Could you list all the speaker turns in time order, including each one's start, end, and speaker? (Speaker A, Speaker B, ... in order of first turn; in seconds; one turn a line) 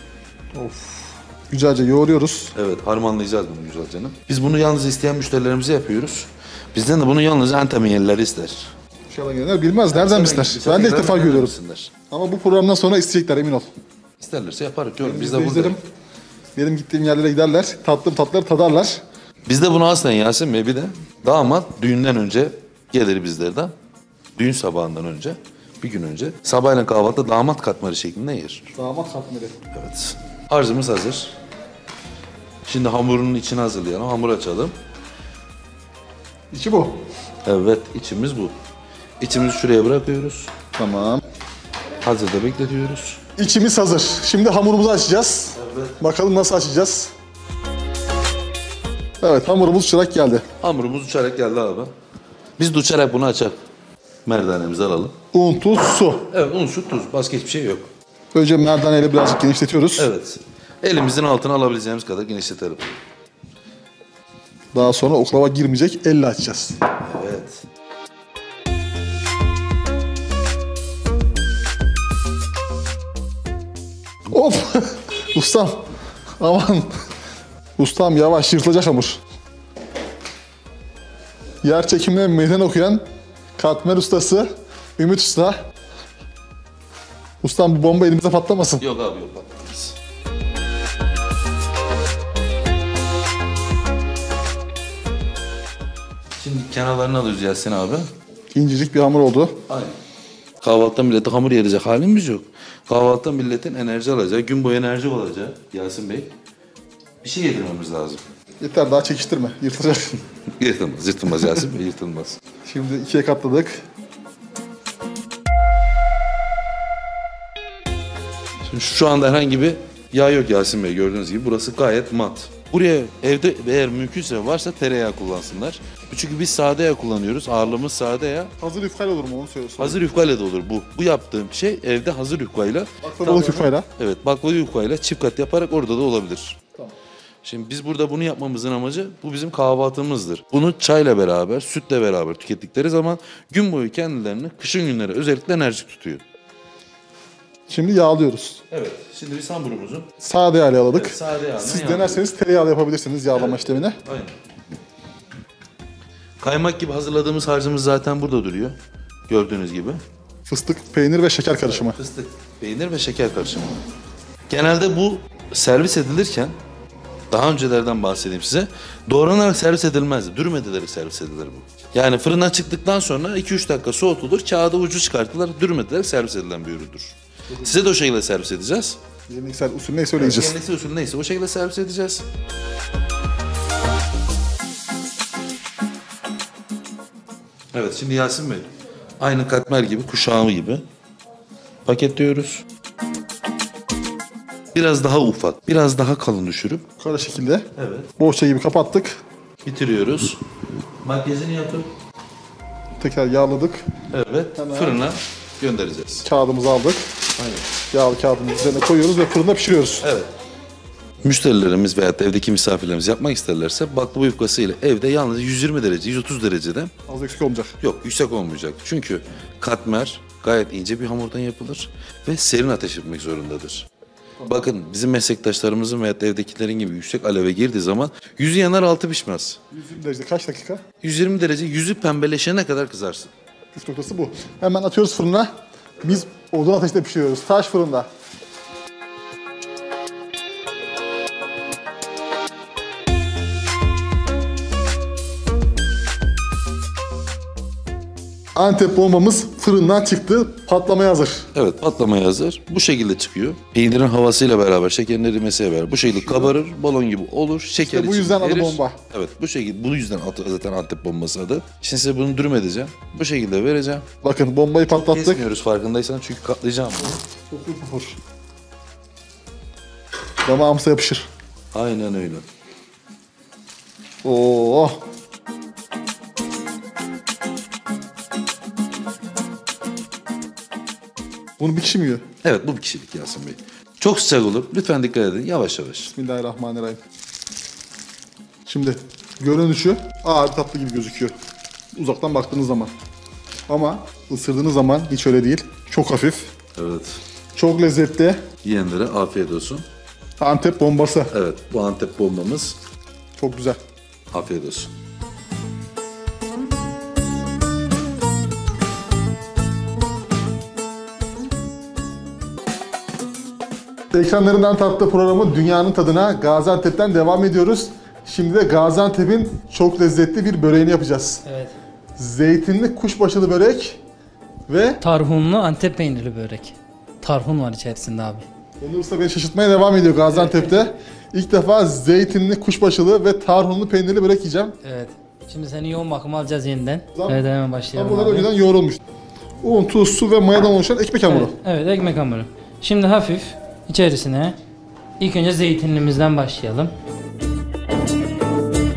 Speaker A: 0.5-2.5
Speaker B: 2.5-8.7
Speaker A: 9.1-11.6
Speaker B: 9.9-11.9
Speaker A: 12.1-13.7
Speaker B: 14.2-15.8
Speaker A: 15.0-15.8
Speaker A: 16.6-19.0
Speaker B: 19.4-23.7
Speaker B: 24.4-28.7
Speaker A: 28.7-29.5
Speaker B: 29.7-31.3
Speaker B: 32.6-34.7
Speaker A: 36.5-37.0
Speaker B: 37.4-38.5
Speaker B: 39.2-40.5
Speaker A: 40.7-41.2
Speaker B: 42.0-43.2
Speaker A: 43.4-47.1
Speaker B: 45.5-46.0
Speaker A: 49.2-50.4
Speaker B: 50.6-51.9
Speaker B: 52.6-53.6
Speaker B: 54.2-55.1
Speaker A: 55.3-56.3
Speaker B: 56.3-57.9
Speaker A: 58.3-60.1
Speaker B: 60.0-62.9
Speaker A: 64.7-66.8
Speaker B: 67.0-67.6
Speaker A: 74.3-75.8
Speaker A: 76.4-76.9
Speaker A: 77.8-79.2
Speaker A: 81.6-83.0
Speaker A: 83.6-85.6
Speaker A: 87.4-88.8
Speaker B: 88.8-90.0
Speaker B: 96.4-98.1
Speaker A: 98.5-99.6
Speaker B: 99.7-100.0
Speaker B: 100.6-106.3
Speaker B: 107.2-108.2
Speaker A: 108.6-110.2
Speaker B: 110.6-112.4
Speaker A: 112.7-113.8
Speaker B: 118.7-128.5
Speaker A: 128.6-130.0
Speaker B: 129.8-136.6
Speaker A: 133.0-133.9
Speaker B: 137.4-146.2
Speaker A: 147.7-148.6
Speaker B: 148.7-150.1
Speaker A: 150.2-154.0
Speaker B: 150.9-152.2
Speaker B: 153.3-154.3
Speaker B: 156.4-158.8
Speaker B: 159.3-160.0
Speaker A: 160.5-162.0
Speaker B: 161.6-163.7
Speaker B: 164.5-166.5
Speaker B: 167.3-179.0
Speaker A: 177.5-177.8
Speaker A: 179.3-180.6
Speaker B: 180.2-182.2
Speaker B: 187.7-188.7
Speaker B: 189.2-190.8
Speaker B: 191.8-192.6
Speaker B: 194.7-196.8
Speaker A: 197.0-199.2
Speaker B: 197.8-198.1
Speaker B: 199.6-200.4
Speaker B: 201.0-201.9
Speaker A: 203.0-203.8
Speaker B: 204.1-206.2
Speaker A: 204.6-205.0
Speaker A: 206.2-207.1
Speaker B: 207.3-207.7
Speaker A: 207.9-210.1
Speaker B: 210.0-210.3
Speaker B: 211.2-216.9
Speaker A: 217.1-217.7
Speaker B: 217.8-223.9
Speaker A: 224.4-224.7
Speaker B: 224.5-229.6
Speaker A: 229.7-230.8
Speaker B: 231.0-233.3
Speaker A: 233.7-238.1
Speaker A: 248.5-251.5
Speaker B: 251.5-264.1
Speaker A: 256.1-256.5
Speaker A: 257.8-259.0
Speaker A: 264.2-265.4
Speaker B: 264.9-267.2
Speaker A: 267.5-268.2
Speaker A: 270.4-271.3
Speaker B: 271.7-272.4
Speaker A: 274.2-275.0
Speaker A: 281.6-282.2
Speaker B: 282.4-286.1
Speaker A: 286.0-287.0
Speaker A: 288.6-291.3
Speaker A: 291.9-292.9
Speaker A: 293.7-296.5
Speaker B: 296.8-297.2
Speaker A: 297.5-298.4
Speaker B: 298.6-299.8
Speaker A: 300.4-301.3
Speaker B: 301.3-302.8
Speaker A: 303.4-303.8
Speaker B: 304.3-304.9
Speaker A: 314.1-321.4
Speaker C: 321.4-321.7
Speaker A: 322.2-324.0
Speaker A: 324.7-325.0
Speaker C: 325.0-328.4
Speaker A: 328.8-334.8
Speaker C: 330.3-330.9
Speaker C: 334.8-338.5
Speaker A: 337.1-339.0
Speaker A: 339.6-341.5
Speaker C: 341.2-344.6
Speaker C: 345.2-346.9